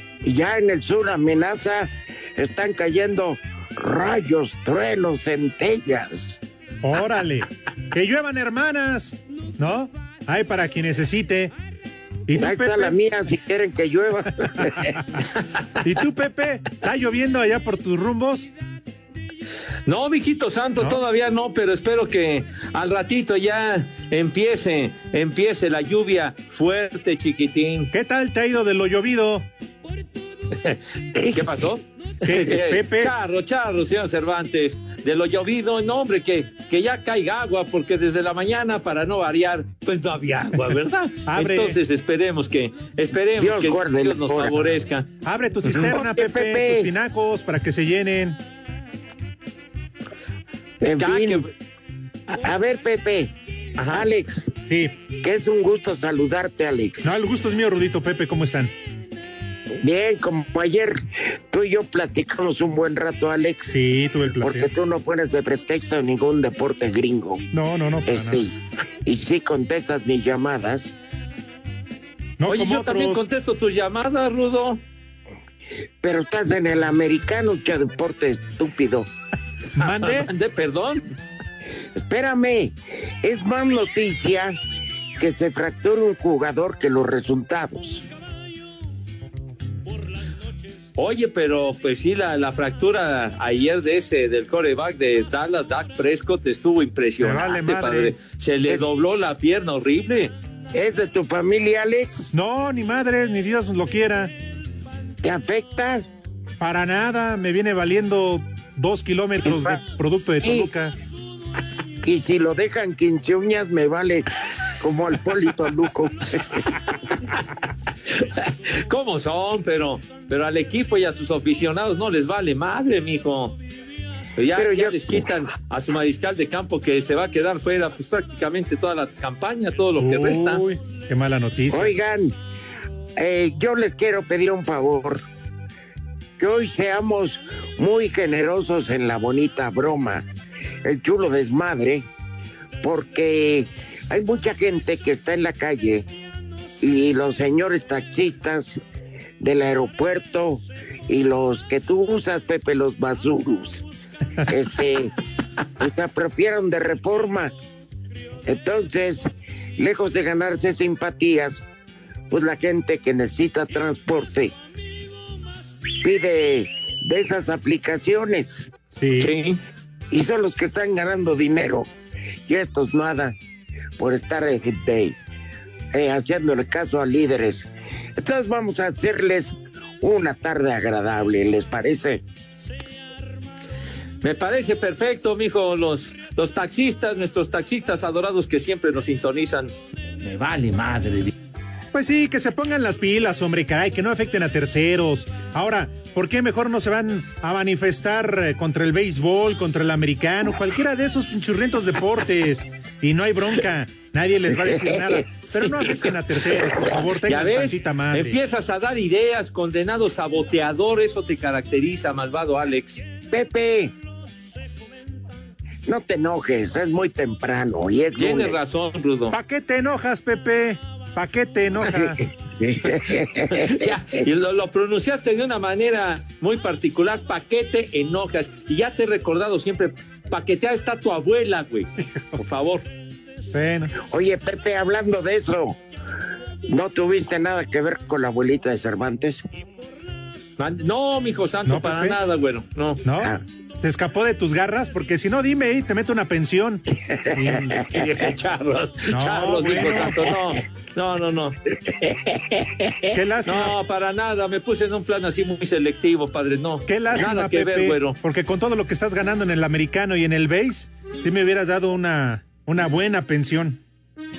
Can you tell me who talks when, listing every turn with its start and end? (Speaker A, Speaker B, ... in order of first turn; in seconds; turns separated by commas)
Speaker A: 0.2-6.4, Speaker B: 6.8-11.5, Speaker B: 12.3-12.9, Speaker A: 12.3-14.9, Speaker B: 15.8-18.5, Speaker C: 19.9-27.9, Speaker B: 27.9-29.4, Speaker C: 30.5-45.1, Speaker A: 31.1-31.6, Speaker B: 32.2-33.1, Speaker B: 41.3-41.8, Speaker A: 43.4-44.8, Speaker B: 45.2-48.4, Speaker A: 45.8-46.9, Speaker A: 50.8-51.4, Speaker C: 51.0-51.5, Speaker A: 52.3-53.3, Speaker C: 53.8-54.1, Speaker A: 53.9-54.5, Speaker B: 54.7-55.0, Speaker A: 55.2-57.1, Speaker B: 57.0-58.7, Speaker A: 59.8-63.8, Speaker B: 63.7-64.7, Speaker A: 64.3-67.5, Speaker B: 67.5-68.4, Speaker A: 68.0-70.9, Speaker B: 72.4-73.2, Speaker C: 72.5-74.8, Speaker A: 76.0-79.1, Speaker B: 79.8-80.3, Speaker C: 79.8-81.1, Speaker A: 81.9-84.6, Speaker A: 85.2-88.0, Speaker C: 91.0-100.3, Speaker B: 97.2-98.1, Speaker A: 100.7-102.3, Speaker B: 102.3-104.3, Speaker A: 105.2-106.0, Speaker B: 106.6-110.9, Speaker A: 109.4-109.8, Speaker A: 110.4-110.7, Speaker A: 112.0-114.3, Speaker A: 114.8-116.6, Speaker C: 118.2-123.6, Speaker C: 124.4-130.6, Speaker A: 124.5-125.3, Speaker B: 130.0-131.9, Speaker A: 131.7-132.3, Speaker A: 133.2-135.2, Speaker A: 136.4-140.3, Speaker A: 140.8-142.1, Speaker A: 142.8-146.1, Speaker A: 146.8-148.8, Speaker A: 149.4-153.8, Speaker A: 154.4-155.1, Speaker A: 155.8-157.5, Speaker A: 158.4-161.6, Speaker A: 162.3-164.5, Speaker A: 166.0-168.7, Speaker B: 169.0-169.3, Speaker C: 169.2-169.6, Speaker A: 170.1-171.9, Speaker A: 172.5-173.3, Speaker A: 174.0-175.2, Speaker A: 175.9-182.2, Speaker C: 184.2-191.3, Speaker B: 191.9-208.4, Speaker A: 204.5-205.2, Speaker C: 205.6-206.1, Speaker A: 206.6-206.9, Speaker C: 207.3-213.0, Speaker A: 213.3-213.9, Speaker A: 215.8-218.6, Speaker C: 218.2-219.3, Speaker B: 219.3-222.2, Speaker A: 222.1-224.0, Speaker C: 222.9-232.9, Speaker B: 233.5-233.9, Speaker A: 234.0-235.8, Speaker A: 236.7-239.4, Speaker C: 240.6-243.0, Speaker B: 241.7-242.2, Speaker B: 243.0-246.8, Speaker A: 246.9-247.8, Speaker B: 247.3-247.9, Speaker C: 247.9-251.6, Speaker B: 249.1-250.2, Speaker A: 251.8-253.1, Speaker B: 253.1-253.8, Speaker C: 253.4-258.2, Speaker B: 256.9-263.8